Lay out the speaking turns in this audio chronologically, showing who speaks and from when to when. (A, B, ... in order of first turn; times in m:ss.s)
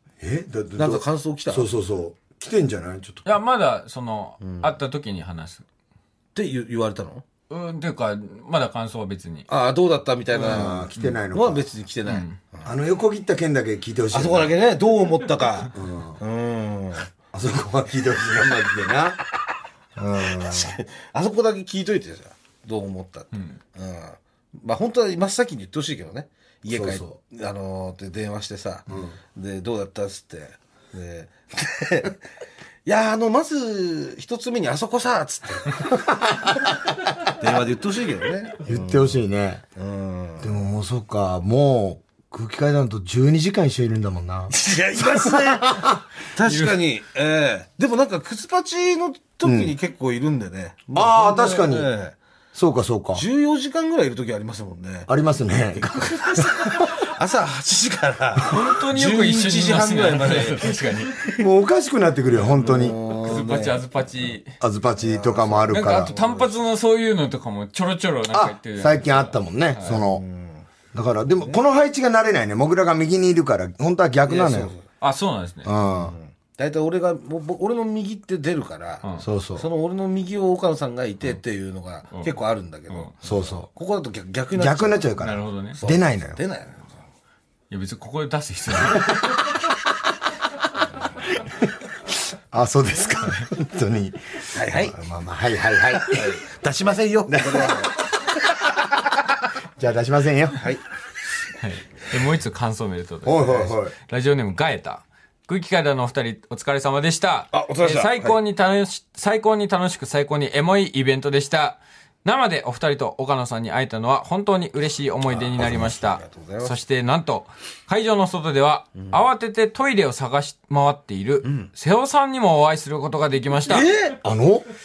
0:00.2-0:03.2 A
0:00.8-0:01.7 B
0:03.2-0:05.6 C
0:04.4-0:04.7 B
0:06.3-0:07.2 B
0:07.5-0:09.5 C
0:09.5-0:12.7 B
0:10.4-0:11.2 C
0:10.4-0:11.6 A
0:12.0-0:12.4 C
0:12.6-0:14.5 A
0:14.1-0:17.1 B
0:15.7-0:16.2 A
0:17.3-0:19.2 A
0:20.0-0:20.8 A
0:20.2-0:32.2 B
0:26.7-0:27.2 A
0:28.9-0:29.2 A
0:32.8-0:36.0 B
0:35.9-0:37.1 A
0:37.3-0:39.2 B
0:38.6-0:39.6 A
0:39.8-0:40.6 B
0:40.4-0:46.0 A
0:44.5-0:52.2 B
0:46.4-0:46.8 C
0:49.4-0:49.7 A
0:50.9-0:51.9 A
0:52.5-0:53.2 A
0:53.1-0:55.1 B
0:55.1-0:57.0 A
0:55.8-1:01.4 B
0:58.5-1:01.2 C
1:01.4-1:03.0 A
1:02.4-1:03.8 B
1:03.1-1:04.6 C
1:04.6-1:06.1 A
1:05.0-1:06.5 B
1:05.7-1:10.0 C
1:08.3-1:10.2 A
1:09.9-1:10.6 B
1:10.9-1:14.7 A
1:14.3-1:14.8 B
1:15.0-1:15.7 C
1:15.6-1:16.1 A
1:15.9-1:25.2 B
1:19.2-1:19.6 A
1:23.2-1:23.7 A
1:24.5-1:26.4 A
1:25.2-1:25.8 C
1:25.8-1:26.9 B
1:27.7-1:29.4 C
1:32.1-1:36.4 A
1:34.5-1:35.0 B
1:36.0-1:38.1 B
1:37.3-1:37.9 A
1:39.8-1:40.7 A
1:41.6-2:03.9 C
1:43.2-1:43.9 A
1:47.5-1:48.4 B
1:55.5-1:56.0 A
1:55.6-1:56.8 B
2:01.4-2:01.7 B
2:03.6-2:04.2 B
2:04.2-2:04.6 A